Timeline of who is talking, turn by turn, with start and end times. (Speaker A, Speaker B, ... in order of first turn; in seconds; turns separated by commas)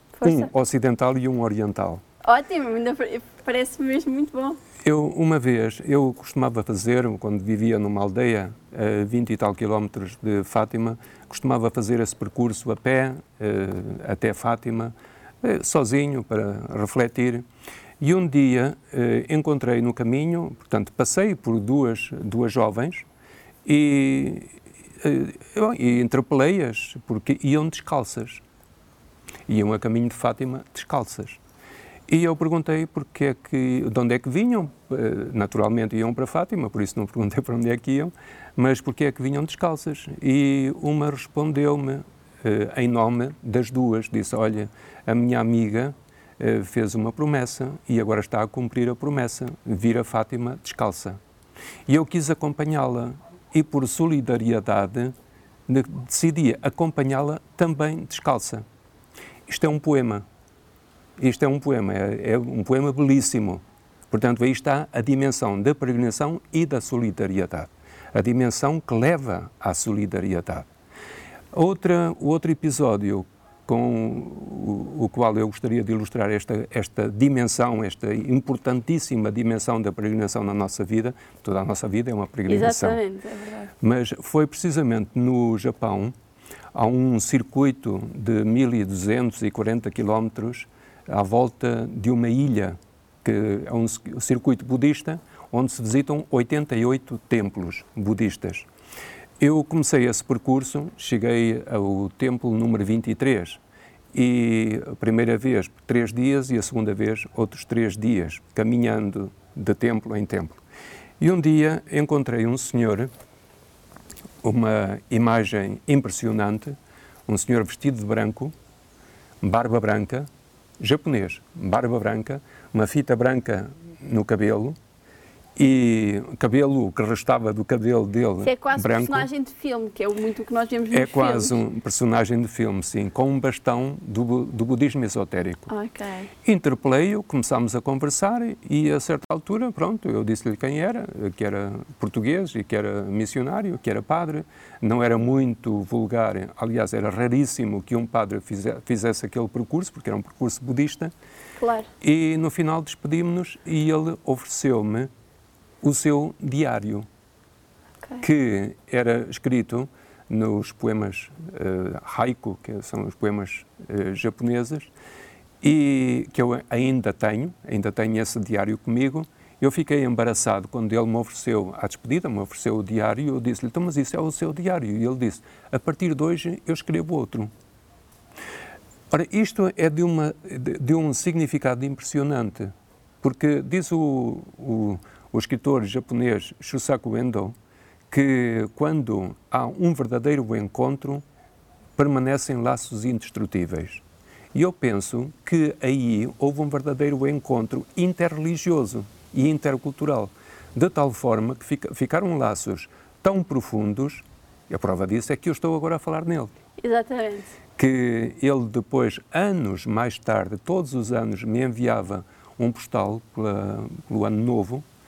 Speaker A: 0.2-0.5, Speaker B: 0.2-2.0, Speaker A: 2.2-4.6, Speaker B: 4.8-17.4, Speaker B: 18.0-23.1, Speaker B: 23.6-28.4, Speaker B: 29.5-31.4, Speaker B: 32.1-51.2, Speaker B: 51.9-55.1, Speaker B: 55.7-58.6, Speaker B: 59.5-60.2, Speaker B: 61.2-70.7, Speaker B: 71.5-83.0, Speaker A: 82.5-83.7, Speaker B: 83.8-86.1, Speaker B: 86.7-98.7, Speaker B: 99.4-103.6, Speaker B: 104.1-110.6, Speaker B: 111.2-113.1, Speaker B: 114.4-116.8, Speaker B: 117.3-118.5, Speaker B: 119.4-120.3, Speaker B: 120.8-124.8, Speaker B: 125.6-129.3, Speaker A: 128.4-131.6, Speaker B: 130.9-135.7, Speaker A: 135.7-136.3, Speaker B: 136.4-151.1, Speaker A: 151.6-151.9, Speaker B: 152.0-155.1, Speaker B: 155.8-157.1, Speaker B: 158.2-164.9, Speaker B: 165.6-177.5, Speaker B: 179.1-187.6, Speaker B: 188.1-191.2, Speaker B: 192.0-206.5, Speaker A: 206.8-207.5, Speaker B: 207.8-214.8